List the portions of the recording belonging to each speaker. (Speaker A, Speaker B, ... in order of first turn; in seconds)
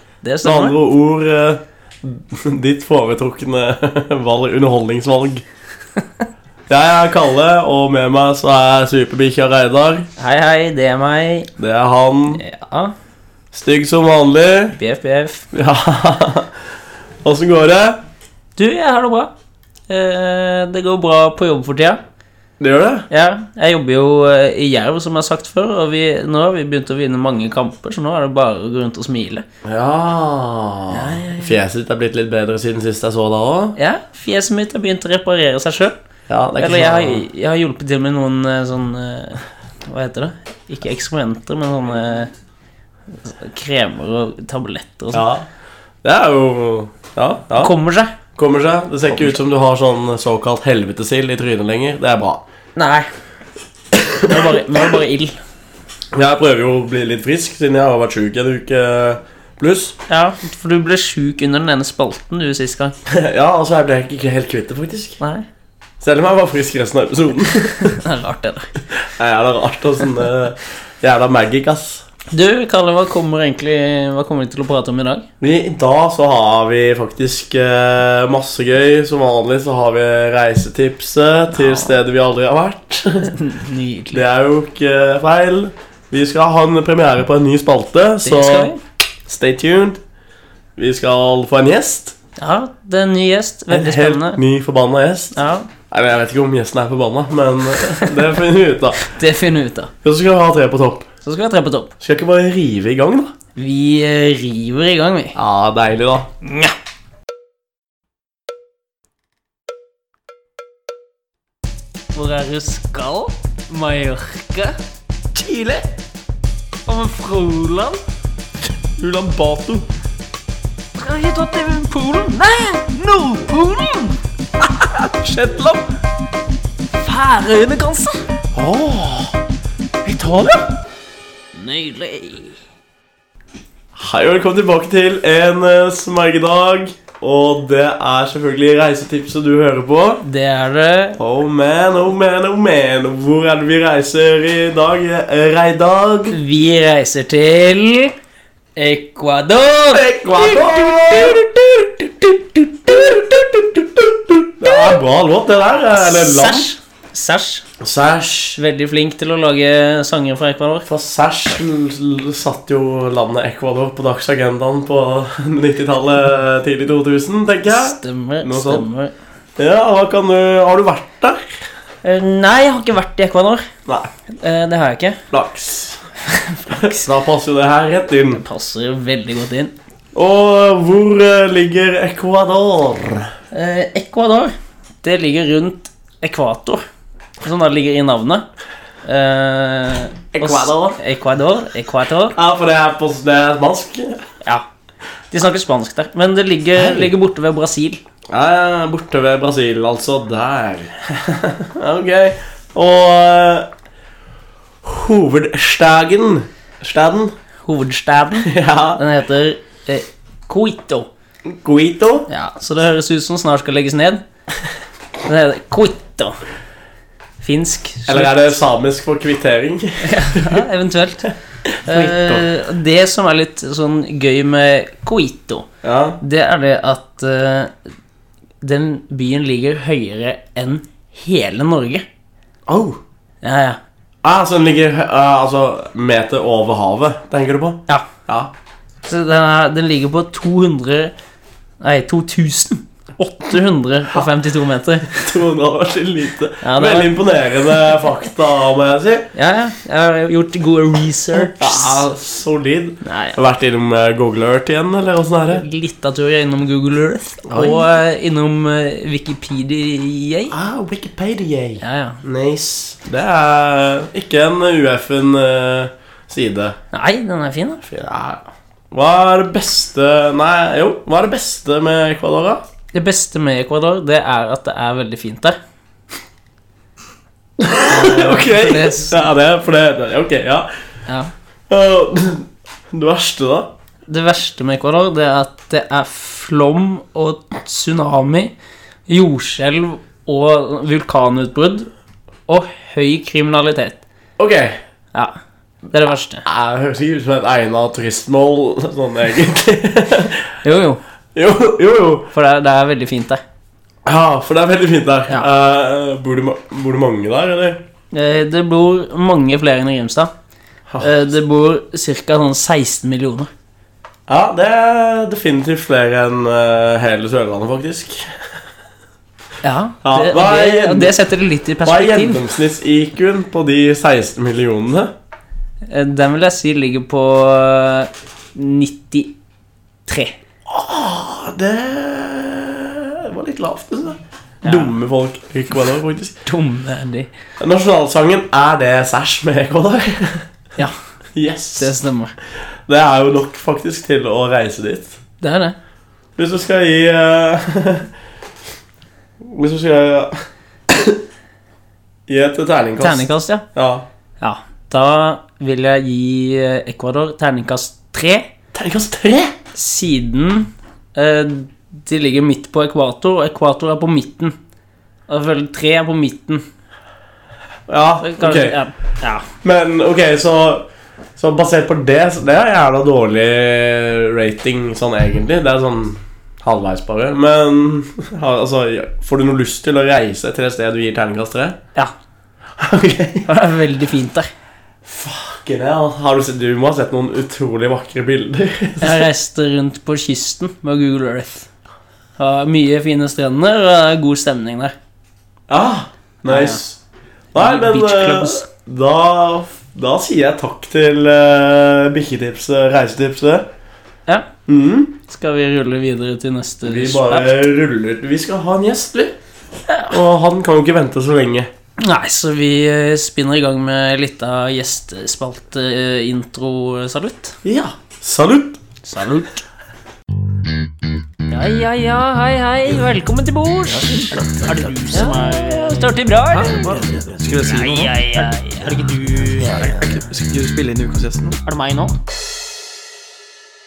Speaker A: 0.2-0.8, 10.2-11.5, 12.3-12.9, 14.7-15.4, 18.6-19.3, 19.9-22.0, 23.1-29.4, 30.9-31.5, 33.7-36.0, 36.6-42.3, 43.1-45.2, 47.5-48.1, 52.8-53.1, 54.2-55.4, 60.1-63.0, 65.2-65.5, 67.8-68.8, 72.3-75.3, 81.5-81.9, 83.3-84.2, 88.2-88.8, 92.4-94.4, 95.3-95.7, 99.1-99.9, 101.2-101.9, 103.5-105.4, 106.4-106.7, 112.1-114.8, 116.8-118.0, 121.0-124.2, 127.0-128.2, 131.5-132.6, 140.2-141.2, 146.3-148.1, 148.8-151.5, 152.6-153.2, 154.6-155.0, 155.9-157.6, 158.6-160.9, 167.7-169.1, 172.0-173.7, 174.4-175.2, 176.2-177.1, 178.3-179.7, 183.5-186.8, 187.4-188.4, 189.0-192.3, 195.3-198.0, 207.6-211.1, 212.3-214.2, 215.2-216.4, 217.4-218.5, 220.0-221.3, 221.8-225.7, 226.2-227.7, 228.6-232.1, 233.4-233.8, 239.1-241.1, 241.8-245.3, 246.6-247.2, 249.3-252.0, 253.0-253.4, 255.5-260.5, 261.8-262.2, 266.9-267.9, 272.9-275.6, 277.9-279.2, 281.1-281.3, 284.1-288.5, 289.1-291.9, 292.5-294.0, 295.9-296.4, 300.6-301.0, 302.3-303.4, 308.1-310.3, 311.0-313.5, 319.6-322.4, 325.9-329.3, 330.1-330.3, 334.6-334.9, 336.4-337.3, 341.8-342.3, 345.4-345.8, 353.0-353.6, 354.4-358.5, 359.7-364.6, 365.3-366.6, 368.2-369.4, 383.4-384.5, 389.0-391.7, 392.4-394.9, 396.4-396.8, 397.5-398.6, 405.3-407.5, 412.0-417.6, 419.0-419.6, 421.5-426.9, 427.6-429.8, 431.6-432.1
Speaker B: 0.4-5.4, 6.7-10.1, 11.6-12.4, 13.5-14.8, 15.5-16.5, 17.2-18.0, 22.6-23.1, 29.6-33.8, 36.3-37.2, 45.1-45.5, 46.0-47.7, 48.3-52.4, 56.1-59.9, 63.0-65.2, 66.0-68.0, 69.1-72.0, 75.4-83.4, 84.1-88.7, 89.3-90.0, 90.8-92.1, 93.7-95.3, 95.9-99.0, 100.0-101.1, 102.0-103.3, 105.3-106.3, 115.3-115.8, 119.0-119.9, 124.6-125.8, 128.5-129.4, 130.0-130.7, 133.9-140.2, 141.2-146.4, 149.9-152.1, 152.8-156.7, 157.8-158.6, 160.9-168.8, 169.6-171.6, 175.3-176.0, 176.7-178.4, 180.1-183.3, 190.3-191.0, 192.3-194.2, 196.8-197.1, 198.3-203.7, 204.8-207.3, 208.4-209.0, 211.4-212.3, 218.1-220.6, 221.7-222.4, 225.8-226.2, 232.7-233.0, 234.2-238.5, 245.2-249.3, 251.3-255.6, 257.4-257.9, 260.5-266.8, 267.9-272.6, 277.6-280.7, 281.7-283.7, 294.4-294.8, 296.4-300.6, 301.3-302.3, 304.0-307.8, 314.3-318.5, 320.0-321.1, 321.8-325.1, 330.7-336.4, 337.6-340.5, 341.3-341.9, 342.9-345.1, 346.4-348.1, 349.4-351.2, 352.3-354.1, 358.7-359.5, 367.9-368.8, 369.6-370.9, 371.4-381.8, 382.8-383.5, 385.0-389.3, 395.7-397.0, 397.5-403.7, 404.7-405.1, 406.8-409.4, 410.1-411.7, 417.6-418.8, 425.1-425.4, 426.5-428.1, 429.6-430.2
Speaker C: 426.8-431.6